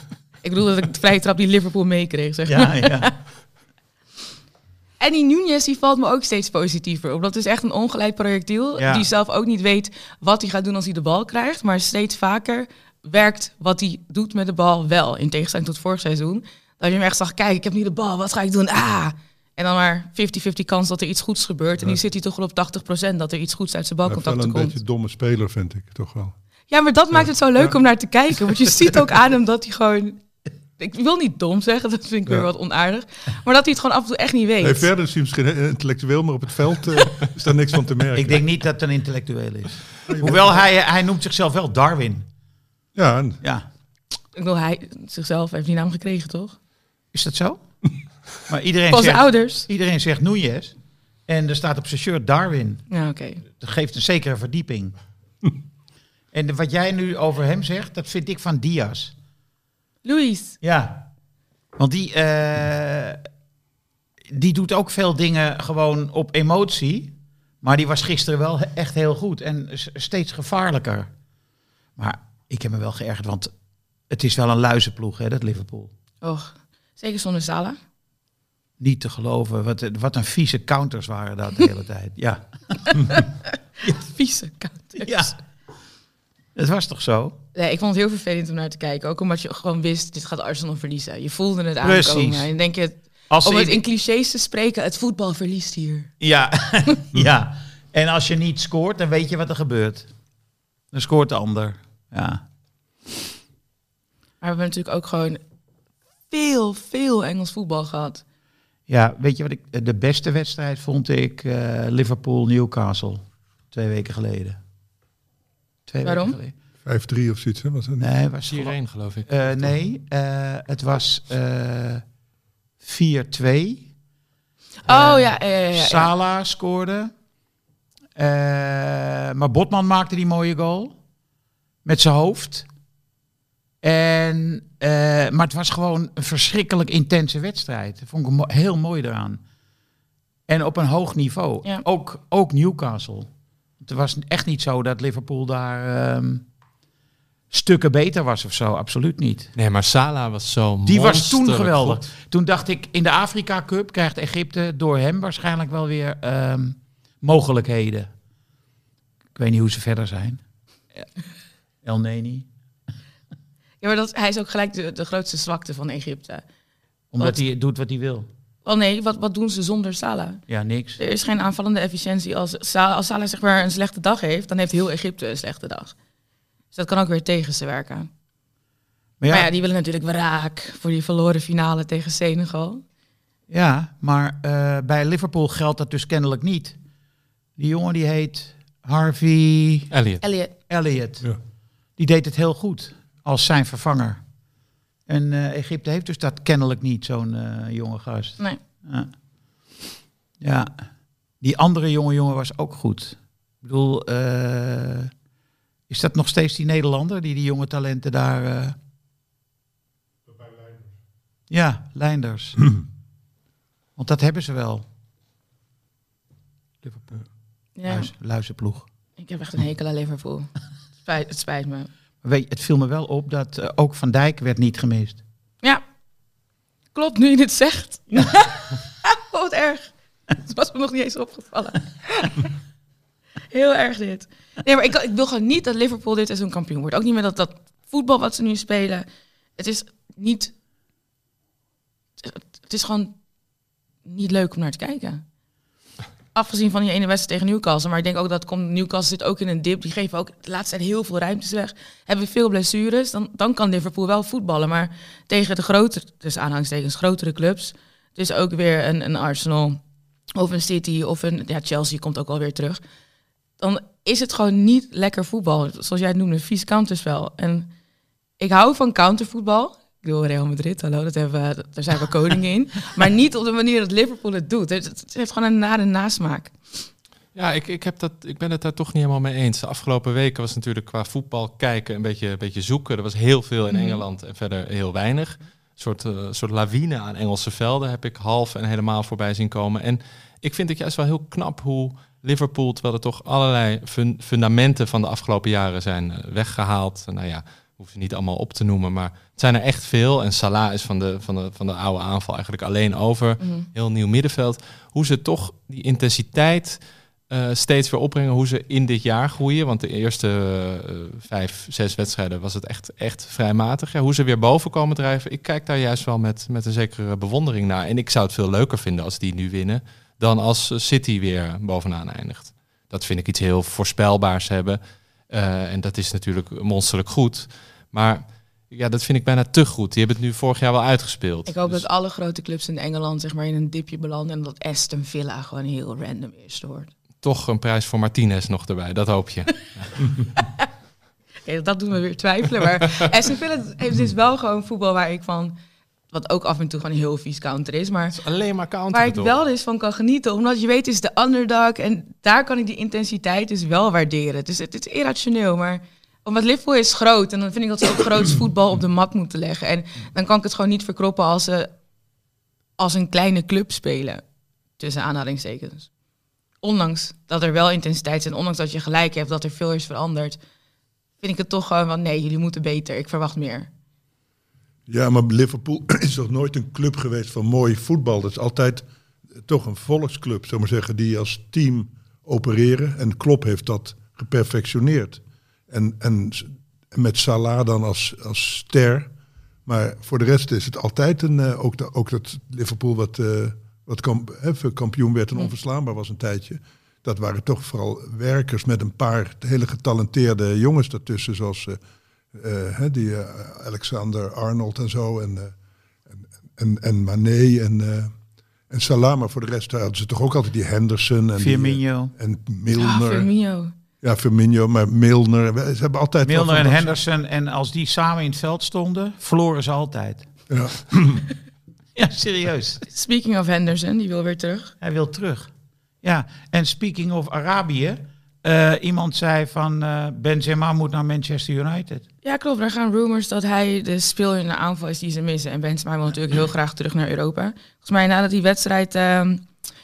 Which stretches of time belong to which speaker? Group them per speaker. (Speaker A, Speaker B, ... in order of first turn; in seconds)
Speaker A: 0.4-3.1, 5.0-24.8, 26.7-30.2, 30.8-34.9, 44.4-46.6, 48.9-49.7, 52.9-53.4, 60.0-60.6, 76.2-77.8, 82.9-83.2, 83.8-85.3, 87.5-96.1, 104.4-105.4, 106.3-108.2, 116.0-116.4, 124.8-126.1, 163.8-166.4, 168.7-170.4, 171.0-175.9, 176.7-178.1, 179.3-182.8, 190.2-190.5, 217.8-218.1, 219.2-220.5, 221.0-221.9, 226.9-232.5, 233.5-239.1, 239.6-240.5, 242.2-243.1, 244.1-245.2, 246.3-259.8, 260.4-262.8, 263.6-267.7, 268.4-276.6, 283.7-284.0, 303.4-303.7, 331.5-336.9, 340.4-340.7, 341.5-345.6, 346.1-348.2, 348.9-361.7, 362.8-364.2, 364.8-365.9, 366.6-370.4, 371.2-373.7, 412.8-413.7, 422.9-424.7, 432.2-439.4
Speaker B: 2.5-3.2, 8.8-9.1, 38.1-42.3, 47.1-47.6, 48.4-50.7, 51.3-52.9, 53.4-55.0, 56.3-59.1, 60.6-61.1, 61.8-63.2, 64.3-71.1, 72.0-73.5, 74.1-75.9, 78.8-83.3, 85.0-85.4, 86.5-87.4, 91.8-92.5, 93.3-93.8, 96.2-100.1, 100.9-102.4, 108.9-114.6, 115.9-116.5, 118.0-122.0, 122.8-123.9, 124.9-127.1, 128.2-131.0, 131.8-132.7, 133.8-139.4, 140.5-146.5, 147.5-149.5, 150.8-158.1, 159.3-160.4, 161.8-162.5, 167.1-168.3, 170.5-171.0, 179.2-179.5, 183.5-186.8, 187.6-189.9, 190.6-191.3, 192.0-194.2, 195.1-199.1, 200.4-200.8, 201.4-205.1, 205.9-208.8, 211.5-212.8, 214.0-214.9, 216.8-217.3, 217.8-218.9, 222.2-225.2, 411.4-412.1, 416.2-420.3, 422.0-422.8, 424.8-425.5, 426.0-432.1
Speaker C: 24.1-26.4, 27.1-27.8, 28.6-29.0, 34.6-38.5, 40.1-40.6, 43.0-43.4, 116.8-118.1, 374.9-378.9, 379.4-389.1, 389.7-401.8, 402.3-405.5, 406.1-408.1, 408.7-413.3, 414.0-417.0, 420.5-421.3
Speaker D: 118.5-119.3, 149.6-152.0, 189.9-190.2, 277.4-331.9, 337.2-340.1, 348.1-349.4